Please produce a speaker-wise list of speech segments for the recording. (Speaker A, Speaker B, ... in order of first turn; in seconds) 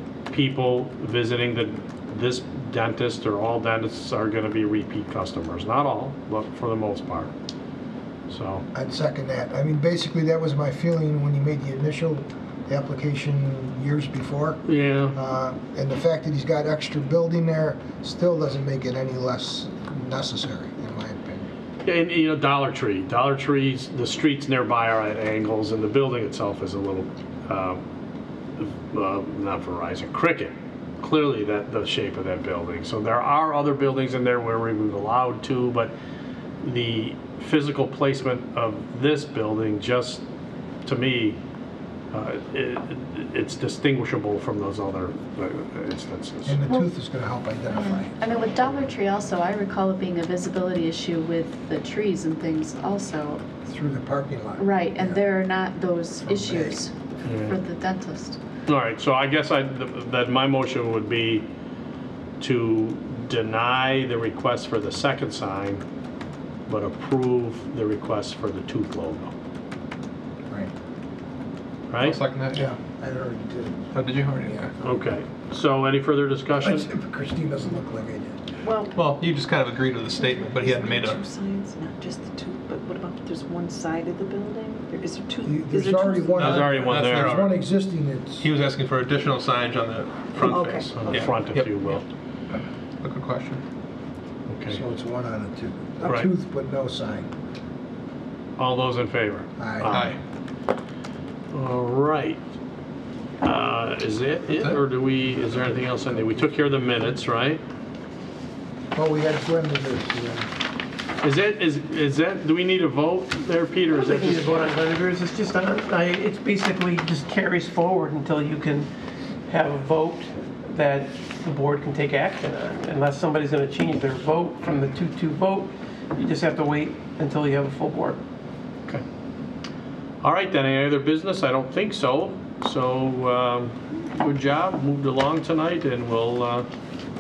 Speaker A: 0.3-7.3, 8.3-8.6, 14.7-15.2, 21.8-27.8, 28.6-35.9, 36.6-40.2, 40.9-41.4, 42.1-46.6, 57.2-57.5, 58.7-61.5, 62.4-65.8, 66.7-69.3, 71.9-72.2, 74.8-76.9, 86.4-87.5, 90.5-92.0, 94.5-94.8, 98.6-100.2, 101.5-102.4, 103.4-107.6, 111.2-114.6, 130.2-136.7
Speaker B: 8.7-21.5, 46.5-48.2, 53.6-55.3, 56.2-56.8, 72.5-74.7, 76.6-78.4, 85.4-88.5, 94.7-97.3, 99.6-100.0, 108.9-110.5
Speaker C: 47.7-53.5, 54.6-58.4
Speaker D: 72.0-72.7, 73.9-74.7, 79.0-81.2, 86.3-87.6, 88.4-91.9, 92.5-93.6, 99.9-100.2
Speaker E: 78.6-78.9, 80.2-86.3, 90.4-91.0
Speaker F: 113.9-118.9, 119.5-128.2